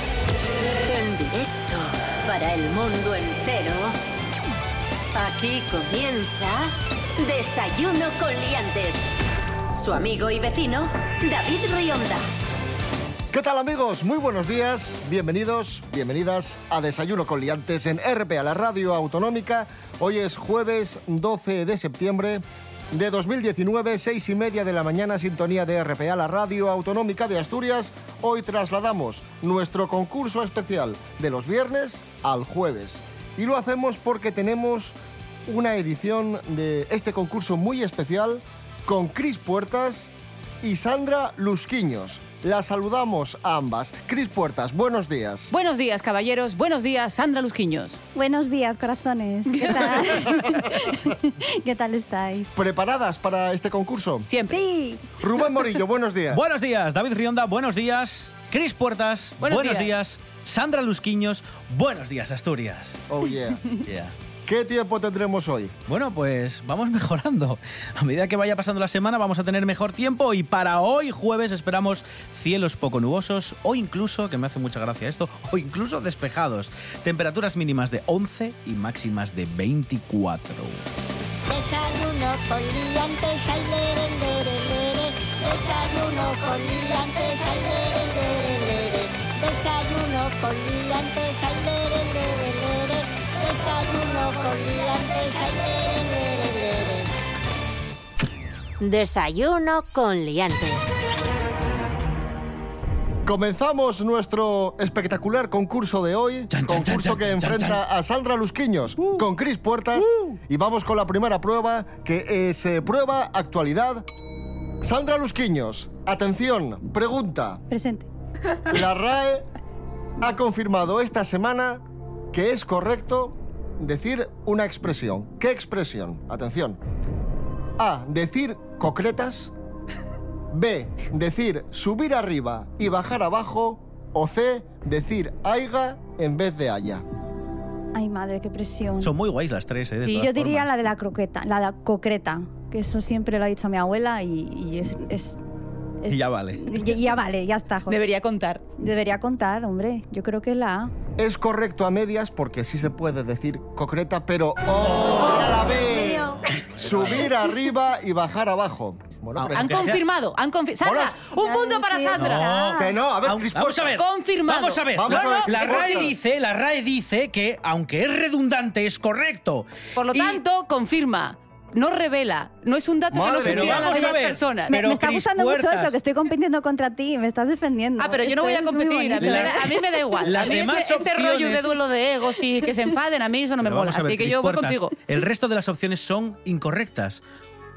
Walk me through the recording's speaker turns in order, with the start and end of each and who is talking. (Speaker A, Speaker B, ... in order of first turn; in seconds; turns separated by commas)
Speaker A: 0.8-4.0, Speaker A: 5.1-9.0, Speaker A: 9.8-12.2, Speaker B: 13.3-45.5, Speaker C: 45.5-48.0, Speaker D: 48.1-52.6, Speaker C: 49.5-50.3, Speaker B: 52.5-54.3, Speaker C: 54.3-54.6, Speaker D: 54.5-55.1, Speaker B: 55.2-56.4, Speaker E: 56.3-63.0, Speaker C: 59.4-59.9, Speaker B: 63.1-63.6, Speaker E: 63.9-64.1, Speaker B: 64.5-65.7, Speaker E: 65.9-80.8, Speaker F: 81.5-97.1, Speaker A: 98.8-100.9, Speaker B: 103.3-114.0, Speaker E: 106.5-107.8, Speaker E: 110.0-110.3, Speaker B: 114.8-117.6, Speaker D: 117.7-118.1, Speaker B: 118.7-119.5, Speaker B: 120.2-126.8, Speaker B: 127.8-129.5, Speaker B: 130.5-137.0, Speaker D: 137.9-139.1, Speaker E: 139.0-140.7, Speaker D: 140.1-145.4, Speaker D: 146.0-148.0, Speaker E: 146.1-146.6, Speaker C: 147.9-148.6, Speaker D: 148.8-150.9, Speaker B: 151.2-159.9, Speaker D: 155.8-156.2, Speaker E: 156.5-157.3, Speaker E: 159.3-160.0, Speaker C: 159.5-162.5, Speaker B: 160.8-161.2, Speaker D: 161.4-162.9, Speaker E: 162.2-170.4, Speaker B: 162.7-164.0, Speaker C: 164.0-166.0, Speaker B: 164.9-166.1, Speaker C: 169.9-174.7, Speaker B: 173.1-174.1, Speaker E: 173.4-176.0, Speaker D: 174.7-179.8, Speaker C: 178.0-185.0, Speaker E: 179.2-181.8, Speaker E: 183.6-187.2